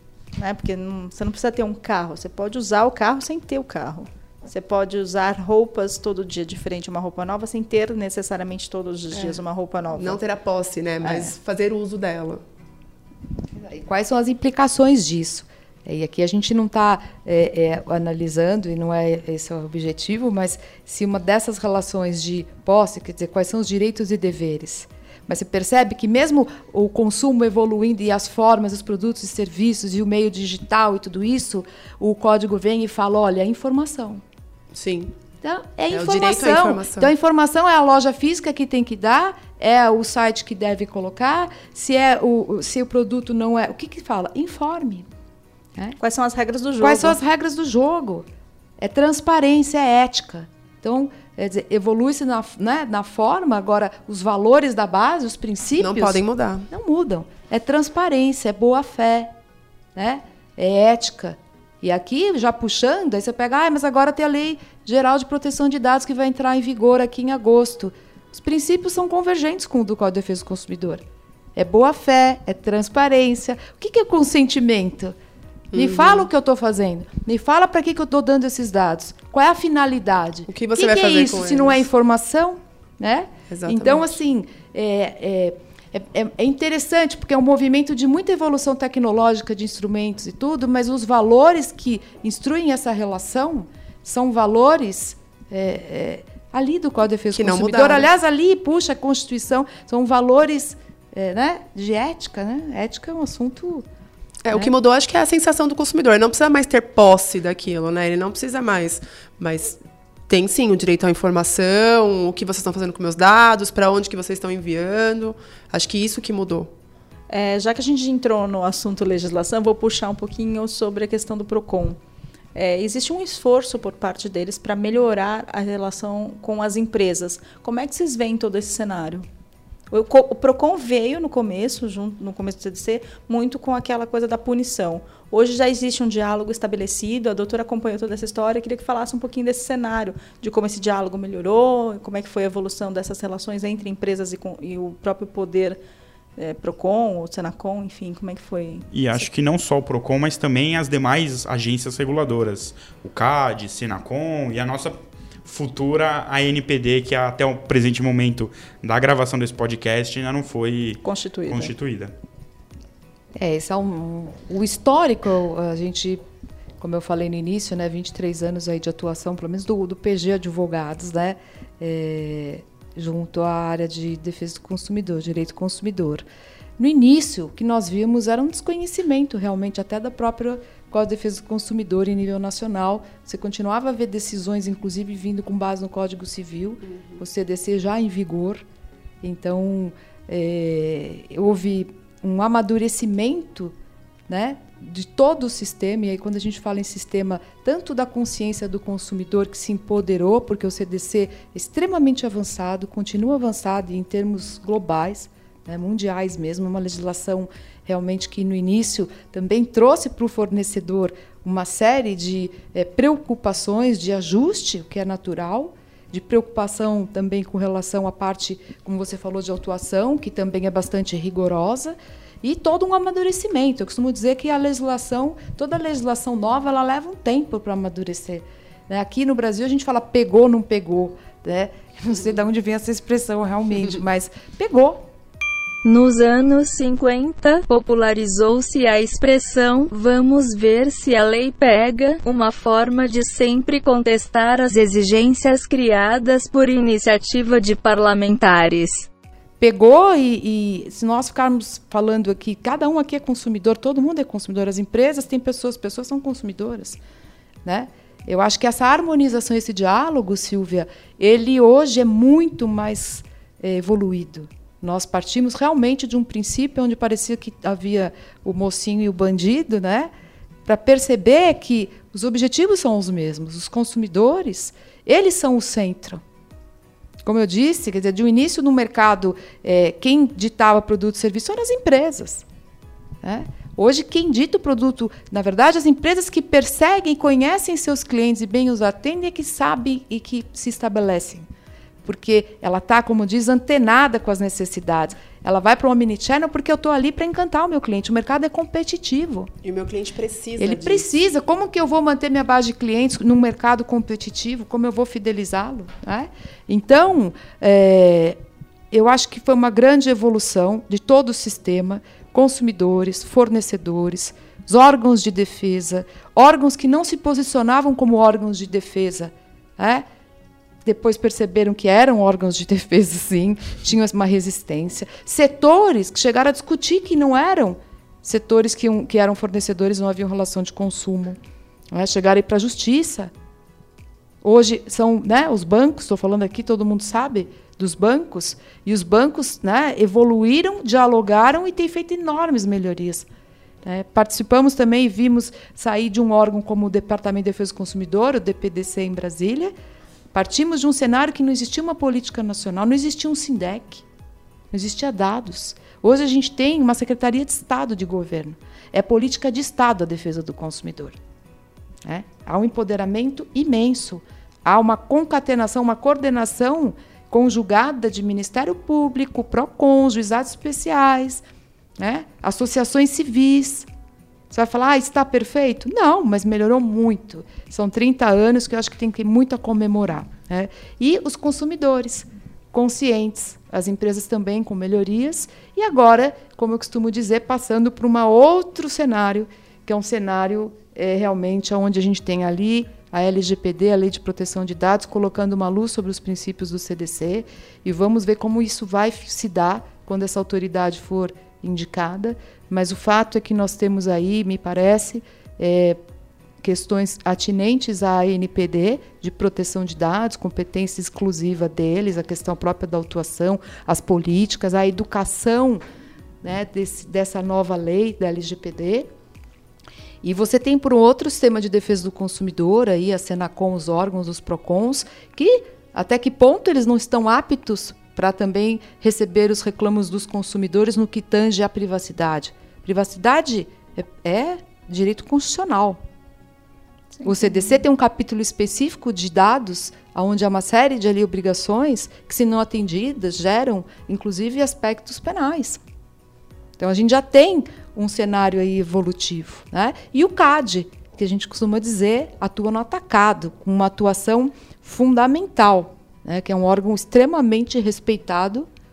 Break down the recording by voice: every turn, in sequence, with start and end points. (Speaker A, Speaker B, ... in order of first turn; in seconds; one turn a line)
Speaker A: 0.4-10.2
Speaker B: 9.9-12.4
Speaker A: 11.0-11.3
Speaker C: 13.6-34.2
Speaker B: 34.7-35.1
Speaker C: 35.4-45.1
Speaker B: 35.9-37.1
Speaker A: 46.0-47.2
Speaker C: 46.8-48.3
Speaker C: 48.8-59.3
Speaker B: 55.8-56.7
Speaker C: 60.0-71.0
Speaker C: 71.6-75.2
Speaker B: 75.7-76.3
Speaker C: 75.7-103.8
Speaker B: 80.5-81.8
Speaker B: 83.5-84.2
Speaker B: 97.3-98.1
Speaker B: 104.5-109.8
Speaker B: 110.3-116.7
Speaker A: 117.3-122.0
Speaker A: 122.5-129.3
Speaker A: 129.9-145.8
Speaker A: 146.4-149.3
Speaker D: 148.9-162.1
Speaker A: 161.0-161.7
Speaker C: 163.4-166.2
Speaker C: 166.8-176.2
Speaker C: 176.8-188.7
Speaker C: 189.2-193.7
Speaker C: 194.3-235.1
Speaker E: 235.8-249.1
Speaker C: 249.6-257.0
Speaker C: 257.6-270.1
Speaker C: 270.7-276.2
Speaker C: 277.2-282.4
Speaker C: 283.2-291.5
Speaker C: 292.1-299.5
Speaker B: 299.6-301.1
Speaker C: 300.6-308.4
Speaker C: 308.9-320.1
Speaker C: 320.9-331.4
Speaker C: 331.9-333.3
Speaker C: 334.4-343.3
Speaker C: 343.9-349.7
Speaker C: 350.3-354.0
Speaker C: 354.7-361.2
Speaker C: 362.1-371.4
Speaker C: 372.0-373.9
Speaker C: 374.5-406.0
Speaker C: 406.6-415.8
Speaker C: 416.4-419.1
Speaker C: 420.2-436.0
Speaker C: 437.2-445.8
Speaker C: 446.8-458.7